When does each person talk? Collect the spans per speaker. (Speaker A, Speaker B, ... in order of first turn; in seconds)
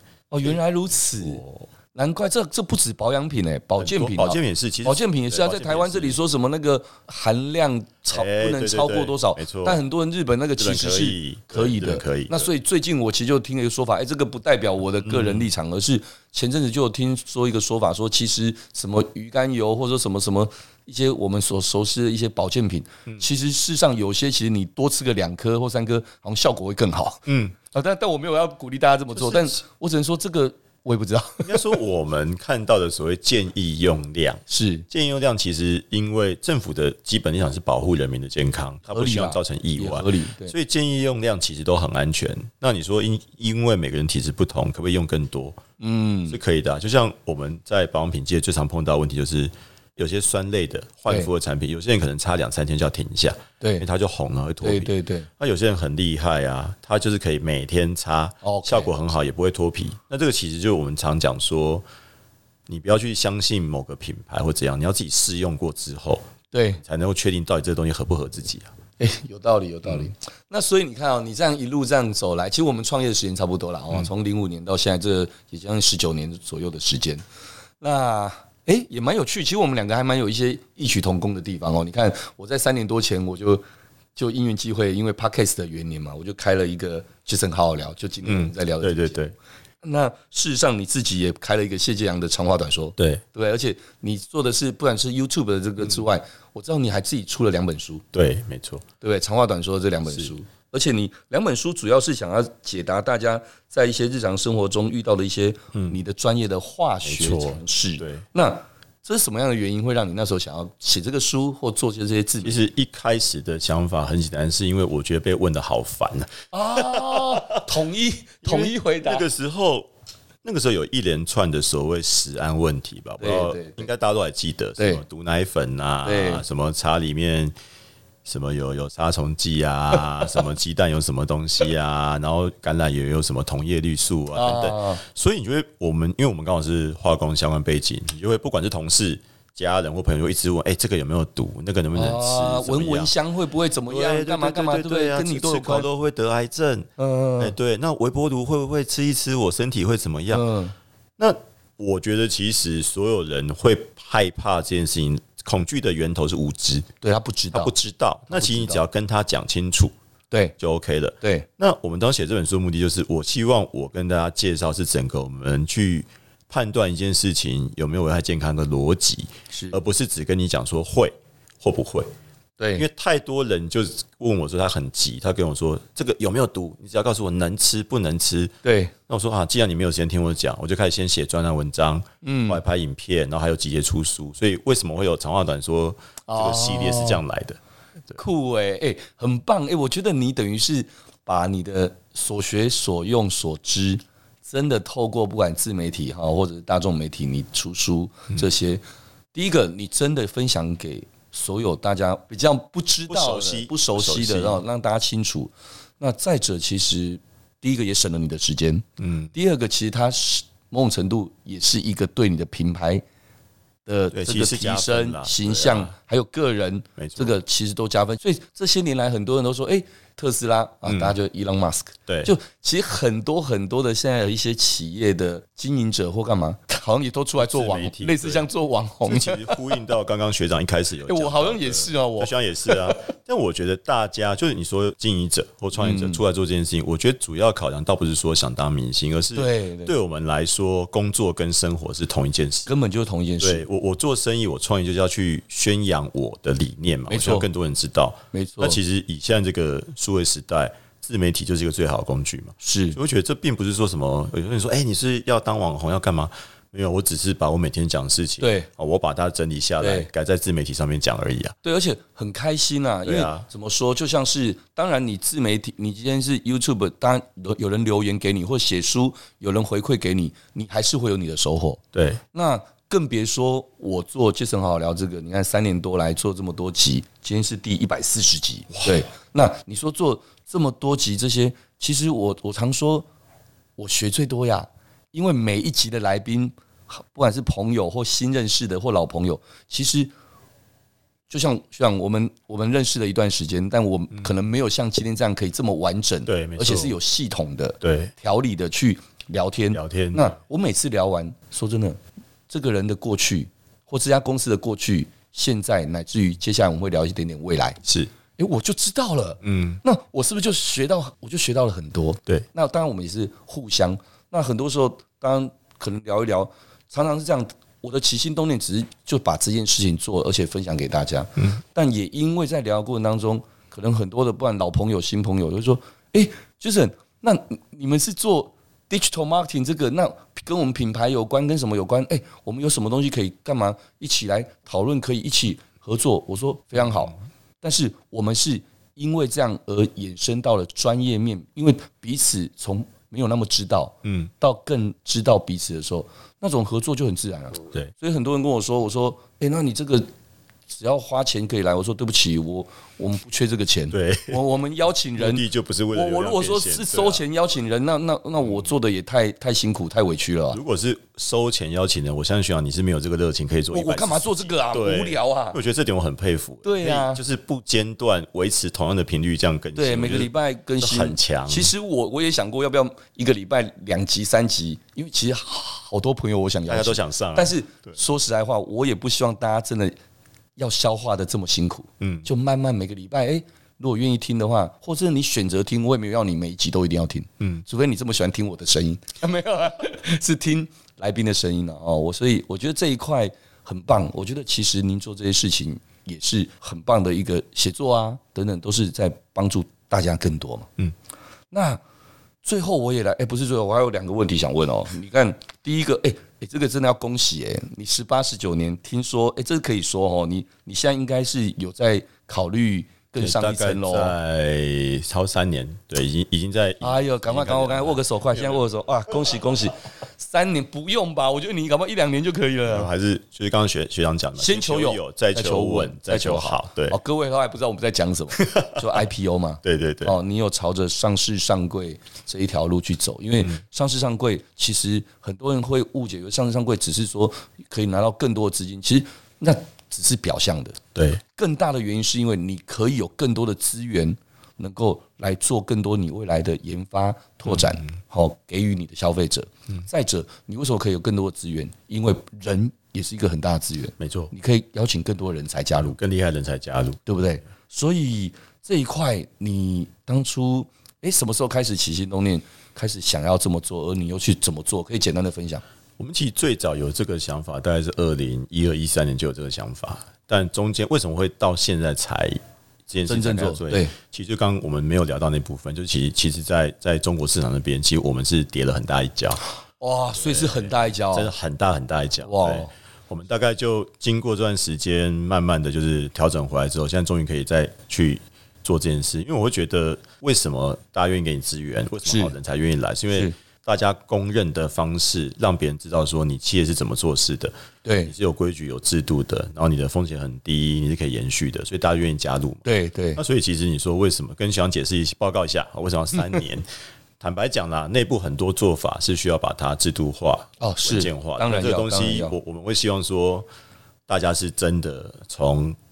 Speaker A: 0.3-1.4, 1.9-31.8, 34.5-34.9, 38.9-40.5, 45.8-46.4, 53.6-53.9, 54.6-55.3, 58.4-58.9, 66.5-66.8, 69.0-77.2, 77.8-83.6, 84.2-89.2, 89.8-98.0, 99.0-112.6, 116.5-119.3, 123.2-123.9, 126.0-126.4, 134.3-135.0, 141.9-145.9, 147.0-147.6, 150.3-150.7, 157.0-157.8, 158.3-158.8, 161.2-161.5, 169.5-169.8, 172.6-172.8, 178.6-178.9, 182.2-182.6, 186.3-187.2, 188.2-198.8, 199.3-213.0, 213.9-229.6, 231.1-233.0, 235.8-236.2, 239.3-239.9, 242.7-243.7, 247.1-247.5, 248.3-248.8, 252.6-253.0, 258.4-258.7, 259.8-260.1, 261.6-271.8, 272.3-283.1, 283.8-290.1, 291.3-302.0, 302.5-307.8, 308.4-350.1, 350.7-360.6, 363.7-365.6, 366.6-367.2, 369.8-380.0, 380.6-400.7, 401.5-401.8, 402.4-414.1, 416.8-422.9, 424.4-440.8, 441.3-456.0, 457.1-465.6, 473.1-473.9, 479.8-481.3, 482.2-482.7, 492.1-492.3, 497.9-498.1, 502.6-503.2, 510.6-512.4
Speaker B: 0.4-1.7, 3.8-6.2, 8.1-9.8, 10.6-12.5, 15.0-15.5, 27.3-27.6, 29.1-29.6, 31.4-45.6, 46.3-61.8, 62.7-66.3, 66.8-68.7, 69.8-70.1, 88.2-89.3, 98.1-98.9, 105.7-106.0, 107.0-108.2, 112.4-117.7, 118.4-119.9, 120.4-127.5, 128.2-143.1, 143.9-150.5, 151.2-156.9, 157.5-159.9, 160.6-172.1, 172.8-178.6, 179.1-187.6, 203.1-204.6, 209.0-209.3, 214.1-215.9, 217.0-217.4, 220.8-221.1, 222.1-222.3, 227.4-228.5, 229.1-242.7, 243.4-261.6, 263.1-263.5, 271.9-272.2, 278.7-279.0, 296.3-297.0, 297.8-298.1, 299.7-300.3, 307.8-308.1, 309.4-309.8, 344.1-344.3, 347.7-347.9, 353.9-354.4, 355.2-357.2, 360.5-371.7, 376.7-378.0, 382.0-382.3, 413.2-418.6, 422.7-427.0, 428.4-428.8, 429.6-430.2, 440.9-441.2, 447.5-447.8, 454.0-454.3, 455.8-457.1, 466.0-479.4, 480.2-497.5, 498.1-502.6, 503.2-506.7, 507.2-513.5, 514.1-515.8